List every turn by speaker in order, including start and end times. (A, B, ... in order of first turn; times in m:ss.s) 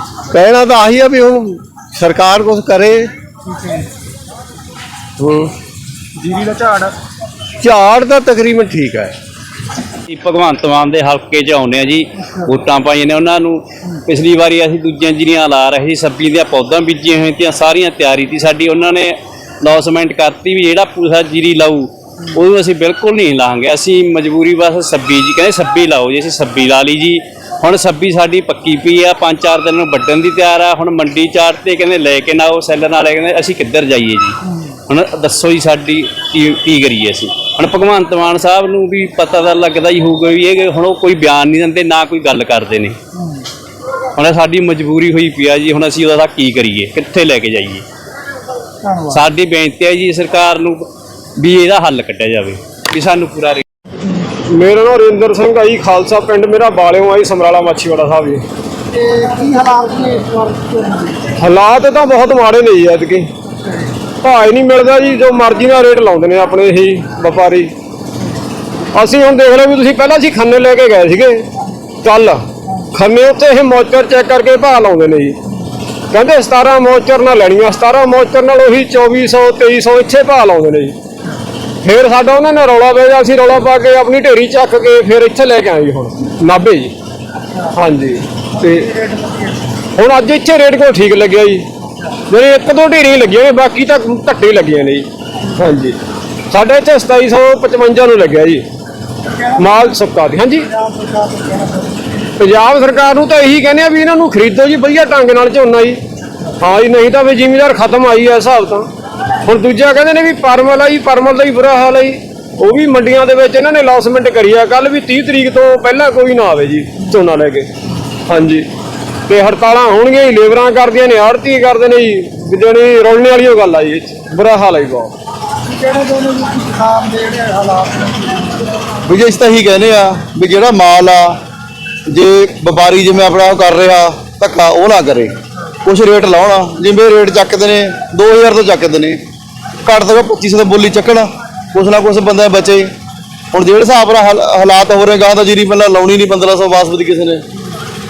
0:00.3-0:03.1 A
0:03.4-0:03.9 B
0:05.2-0:05.5 A
0:06.2-0:07.0 B
0:07.6-0:09.2 A
0:10.1-0:34.4 C
0:12.2-0:12.5 B
0:34.4-0:34.7 B
0:34.9-0:43.0 C
0:43.1-0:43.5 B
0:44.2-0:47.8 C
0:48.8-0:49.2 B
0:49.1-0:53.6 C
0:54.5-0:58.4 D
0:58.9-1:01.3 B
1:01.4-1:03.3 D
1:03.5-1:03.9 B
1:04.2-1:07.7 D
1:08.9-1:11.4 D
1:12.0-1:15.4 D
1:16.1-1:20.9 D
1:21.8-1:26.9 D
1:27.7-1:28.9 D
1:28.6-1:29.6 B
1:30.0-1:31.6 D
1:32.3-1:35.0 D
1:35.6-1:36.0 D
1:36.5-1:38.6 D
1:39.3-1:40.0 B
1:39.6-1:40.7 D
1:40.7-1:42.2 B
1:42.4-1:46.0 D
1:46.6-1:48.9 D
1:49.4-1:57.7 D
1:58.3-1:58.7 D
1:59.3-2:05.1 D
2:05.7-2:08.7 B
2:09.1-2:11.4 E
2:12.1-2:15.3 E
2:15.8-2:19.2 E
2:19.8-2:22.9 E
2:23.5-2:27.4 E